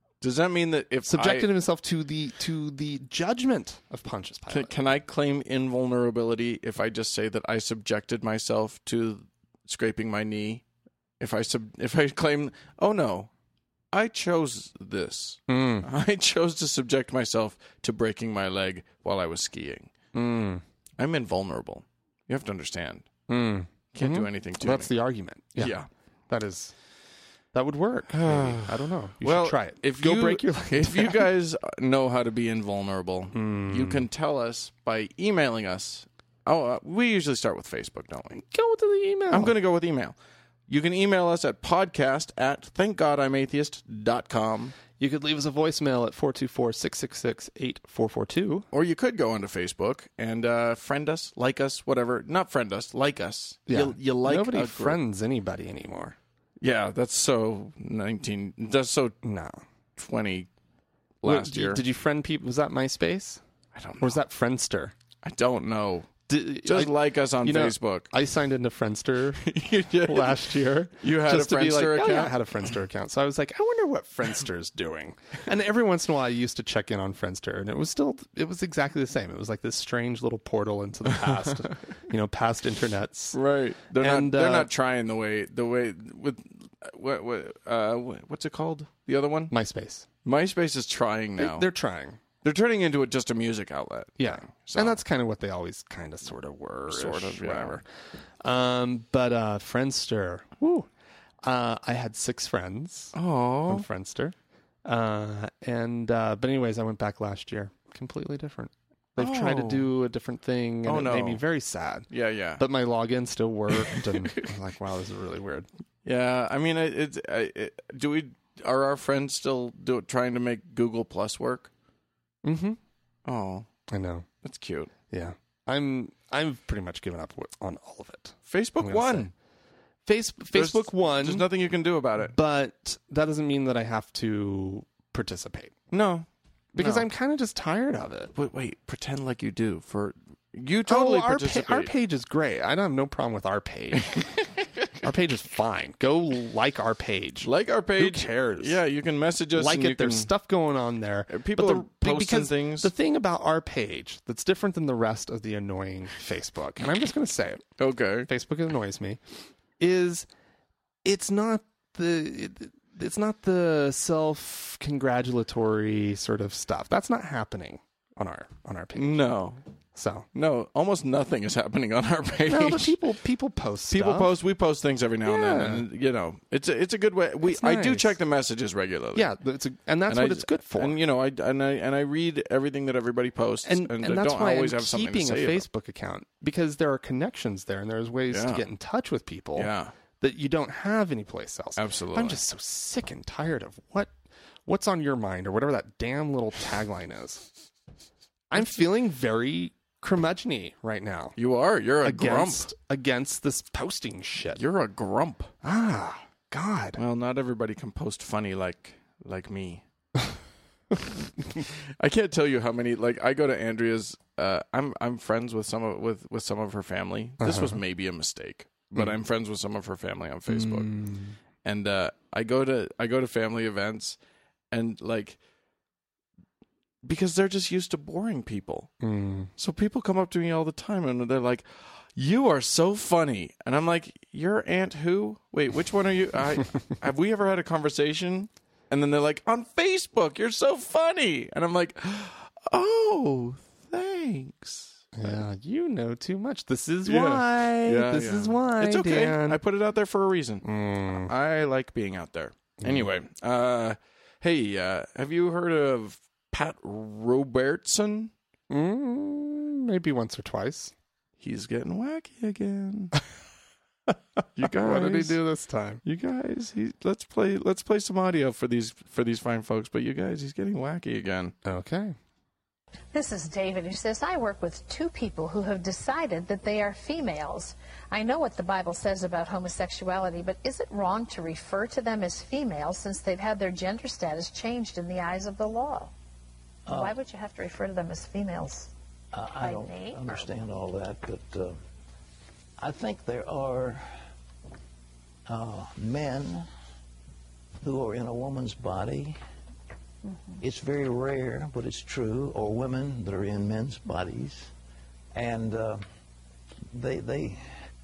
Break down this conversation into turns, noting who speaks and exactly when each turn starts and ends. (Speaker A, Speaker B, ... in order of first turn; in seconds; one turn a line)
Speaker A: 0.2-1.5
Speaker B: 1.1-4.7
Speaker A: 4.5-10.6
Speaker A: 11.2-13.3
Speaker A: 13.9-19.9
Speaker B: 15.5-15.9
Speaker B: 20.1-20.6
Speaker A: 21.0-23.1
Speaker B: 23.3-25.8
Speaker A: 23.9-24.9
Speaker A: 25.6-25.9
Speaker B: 26.3-26.7
Speaker B: 27.5-31.3
Speaker A: 28.1-38.4
Speaker B: 33.3-34.0
Speaker B: 38.4-39.5
Speaker A: 39.3-40.1
Speaker A: 40.7-44.8
Speaker B: 45.0-48.7
Speaker A: 48.7-55.0
Speaker B: 53.7-56.2
Speaker A: 56.6-59.1
Speaker B: 59.2-59.6
Speaker A: 60.0-60.5
Speaker A: 61.2-61.8
Speaker B: 61.2-63.4
Speaker A: 63.7-64.2
Speaker B: 64.0-64.9
Speaker A: 65.2-66.1
Speaker B: 66.3-83.4
Speaker A: 66.6-68.1
Speaker A: 69.4-70.4
Speaker A: 71.0-72.4
Speaker A: 81.1-81.9
Speaker A: 83.3-89.5
Speaker B: 84.0-84.7
Speaker B: 89.5-90.0
Speaker A: 90.2-91.7
Speaker B: 91.4-92.2
Speaker A: 92.4-95.0
Speaker B: 94.2-97.8
Speaker A: 96.9-97.8
Speaker B: 98.4-100.9
Speaker B: 101.4-103.1
Speaker A: 103.1-103.8
Speaker B: 103.7-115.7
Speaker A: 109.2-109.9
Speaker A: 110.8-111.4
Speaker A: 112.1-112.6
Speaker A: 113.7-114.5
Speaker A: 116.0-121.7
Speaker B: 122.4-122.8
Speaker A: 123.2-123.7
Speaker B: 123.9-124.3
Speaker A: 124.4-124.9
Speaker B: 125.1-129.3
Speaker A: 128.5-129.3
Speaker B: 130.1-131.5
Speaker A: 130.5-132.3
Speaker B: 132.2-135.7
Speaker A: 135.9-137.1
Speaker B: 136.7-138.3
Speaker A: 138.3-141.9
Speaker B: 140.9-144.3
Speaker B: 145.0-148.8
Speaker A: 147.4-150.3
Speaker B: 149.5-157.7
Speaker A: 151.3-152.9
Speaker A: 157.8-158.3
Speaker B: 158.3-159.2
Speaker B: 159.8-160.3
Speaker B: 161.0-169.2
Speaker A: 168.9-169.6
Speaker B: 169.9-170.3
Speaker A: 170.3-172.9
Speaker B: 172.5-174.3
Speaker A: 173.9-179.3
Speaker B: 175.2-175.8
Speaker B: 177.4-178.1
Speaker B: 179.1-181.0
Speaker A: 180.1-185.6
Speaker B: 183.6-194.1
Speaker A: 188.3-188.7
Speaker A: 189.5-189.9
Speaker A: 191.8-192.4
Speaker B: 194.7-197.5
Speaker B: 198.5-201.3
Speaker A: 201.4-202.7
Speaker B: 202.0-204.6
Speaker A: 204.6-205.5
Speaker B: 205.6-207.0
Speaker A: 206.9-209.8
Speaker A: 211.5-220.9
Speaker B: 217.4-217.8
Speaker B: 220.5-221.3
Speaker A: 221.6-224.2
Speaker A: 224.7-225.4
Speaker A: 227.0-228.9
Speaker B: 229.0-229.5
Speaker A: 229.6-245.4
Speaker B: 245.1-249.6
Speaker A: 247.0-258.3
Speaker B: 250.6-251.3
Speaker B: 252.8-253.1
Speaker B: 258.7-260.9
Speaker A: 261.4-263.1
Speaker A: 264.5-265.4
Speaker B: 264.6-266.0
Speaker A: 266.0-271.5
Speaker B: 271.6-272.1
Speaker C: 273.1-286.1
Speaker D: 286.9-287.1
Speaker C: 286.9-288.9
Speaker D: 289.3-291.8
Speaker C: 289.6-290.4
Speaker D: 292.8-294.1
Speaker D: 295.5-296.7
Speaker D: 297.8-299.4
Speaker C: 300.2-300.6
Speaker D: 300.6-304.7
Speaker D: 305.3-306.0
Speaker D: 306.9-307.6